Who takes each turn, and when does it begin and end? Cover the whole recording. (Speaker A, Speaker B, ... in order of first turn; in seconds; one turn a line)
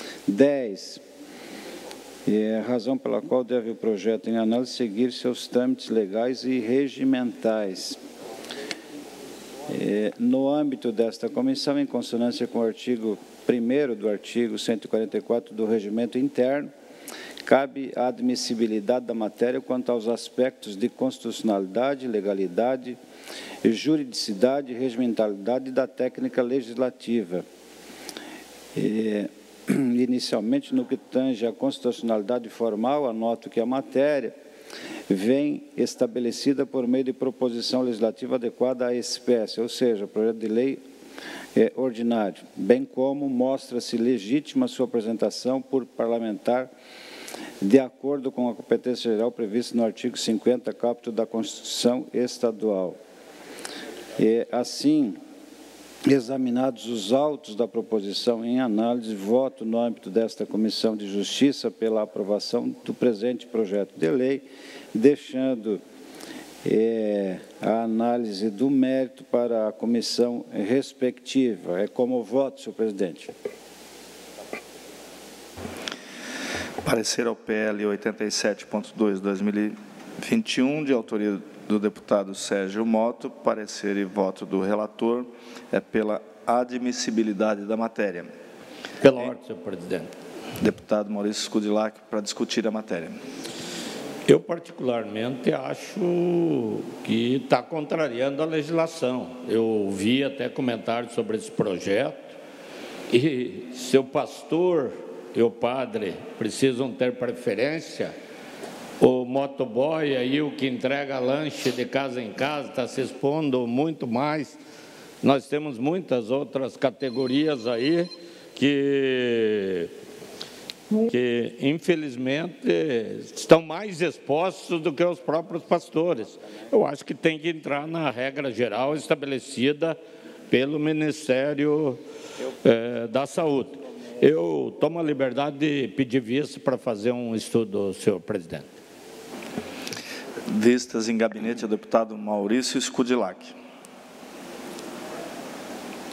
Speaker A: 0.3-1.0
Speaker A: 2.3-8.0
Speaker A: 9.7-16.7
Speaker A: 17.4-23.0
Speaker A: 23.6-27.5
Speaker A: 28.8-34.4
Speaker A: 35.1-40.8
Speaker A: 41.5-46.7
Speaker A: 47.6-53.0
Speaker A: 54.2-55.2
Speaker A: 56.1-65.8
Speaker A: 66.6-73.3
Speaker B: 76.8-88.3
Speaker C: 89.0-90.1
Speaker B: 90.6-93.2
Speaker C: 94.3-102.4
Speaker C: 103.1-108.1
Speaker C: 109.0-114.6
Speaker C: 115.2-119.9
Speaker C: 121.0-130.0
Speaker C: 130.5-132.0
Speaker C: 132.6-138.7
Speaker B: 140.5-143.6